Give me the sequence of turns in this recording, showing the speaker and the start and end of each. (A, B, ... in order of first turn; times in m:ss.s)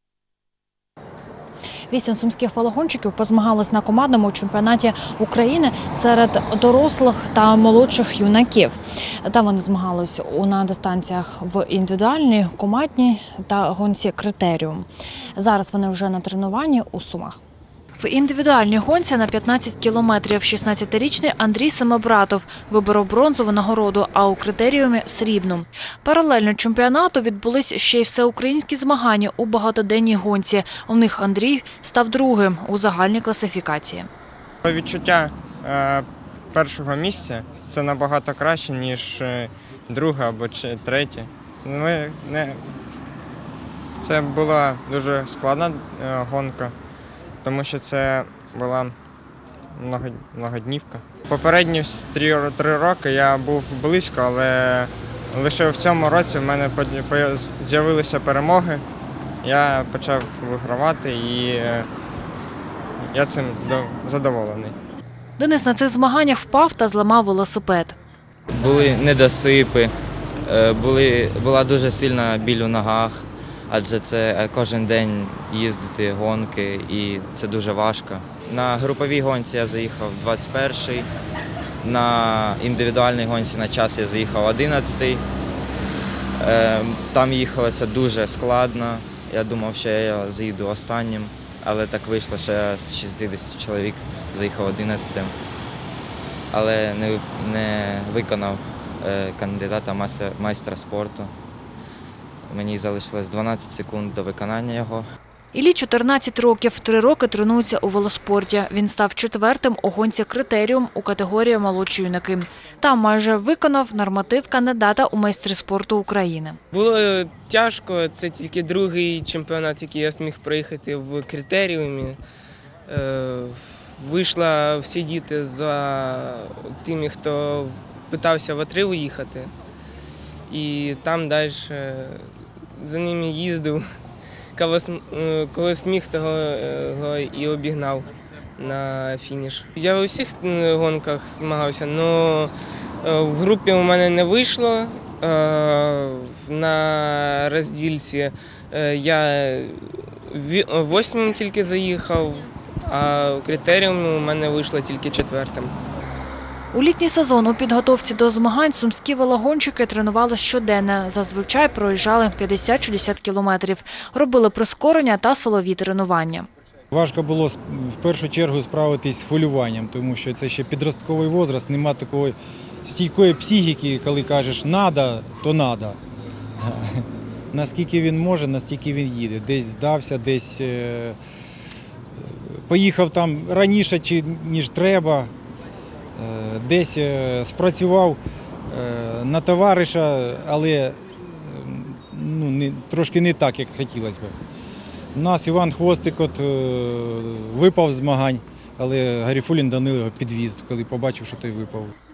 0:01.9-0:17.4 A
0:18.0-0:34.1 A
0:34.6-0:42.7 B
0:44.0-0:46.7 B
0:47.4-0:49.0 B
0:49.7-0:58.8 B
0:59.4-1:01.9 B
1:03.0-1:04.8 B
1:05.4-1:08.0 A
1:08.5-1:09.9 C
1:10.4-1:21.1 C
1:21.8-1:25.2 C
1:26.4-1:35.4 C
1:36.5-1:41.3 C
1:42.5-1:45.0 C
1:45.5-1:56.6 A
1:56.7-2:02.2 D
2:02.9-2:09.6 D
2:10.5-2:13.8 D
2:14.6-2:35.8 D
2:36.7-2:46.5 A
2:46.9-2:56.0 E
2:56.6-3:01.2 E
3:02.2-3:05.3 E
3:06.2-3:14.4 E
3:15.2-3:21.9 E